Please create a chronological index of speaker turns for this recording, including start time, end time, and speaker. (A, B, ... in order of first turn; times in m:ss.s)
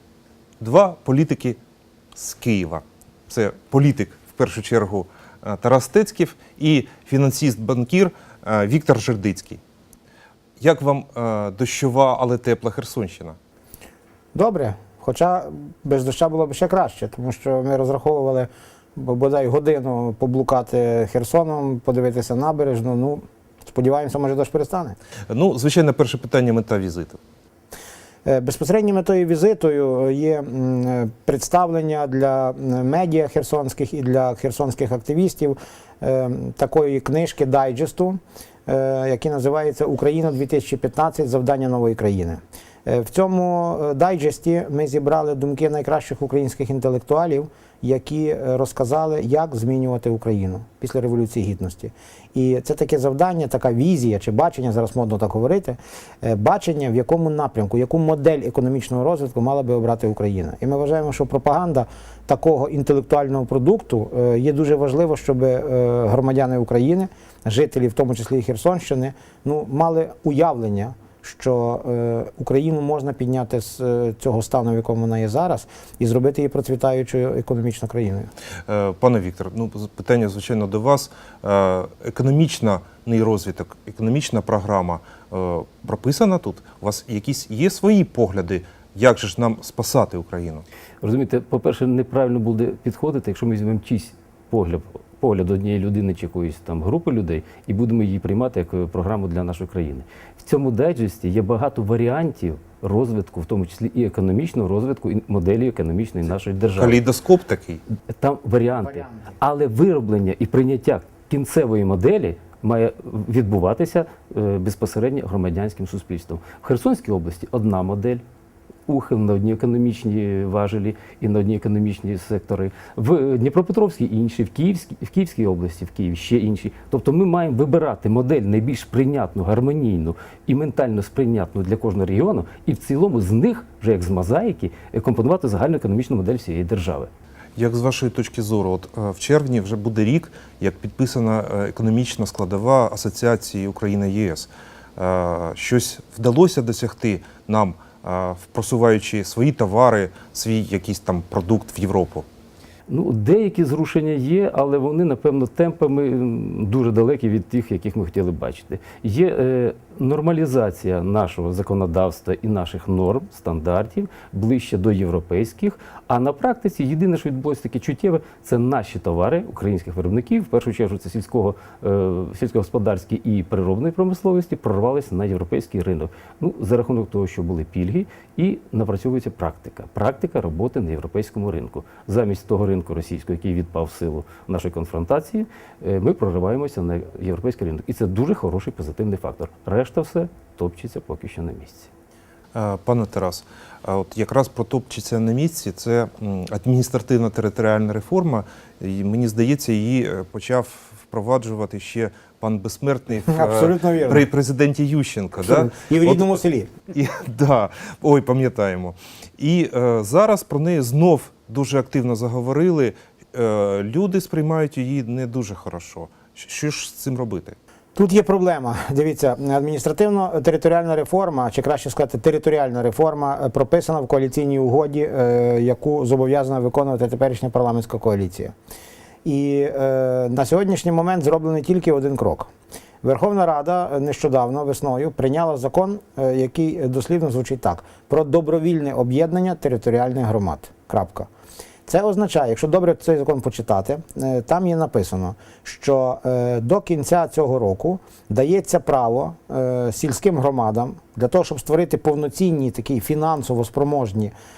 0:00.6-0:01.6 A
0:02.2-0:09.6 A
0:10.6-0:13.4 A
0:14.4-0:25.0 B
0:25.3-0:27.2 A
0:28.2-1:18.3 B
1:18.7-1:30.6 A
1:31.0-1:47.0 C
1:46.8-1:47.8 A
1:48.1-1:58.2 C
1:58.9-2:17.1 C
2:17.6-2:32.3 A
2:32.9-3:11.9 C
3:12.6-3:37.6 A
3:23.3-3:24.3 B
3:25.4-3:26.7 B
3:38.0-3:48.5 B
3:49.2-3:52.5 B
3:53.0-4:01.3 B
4:01.9-4:14.3 B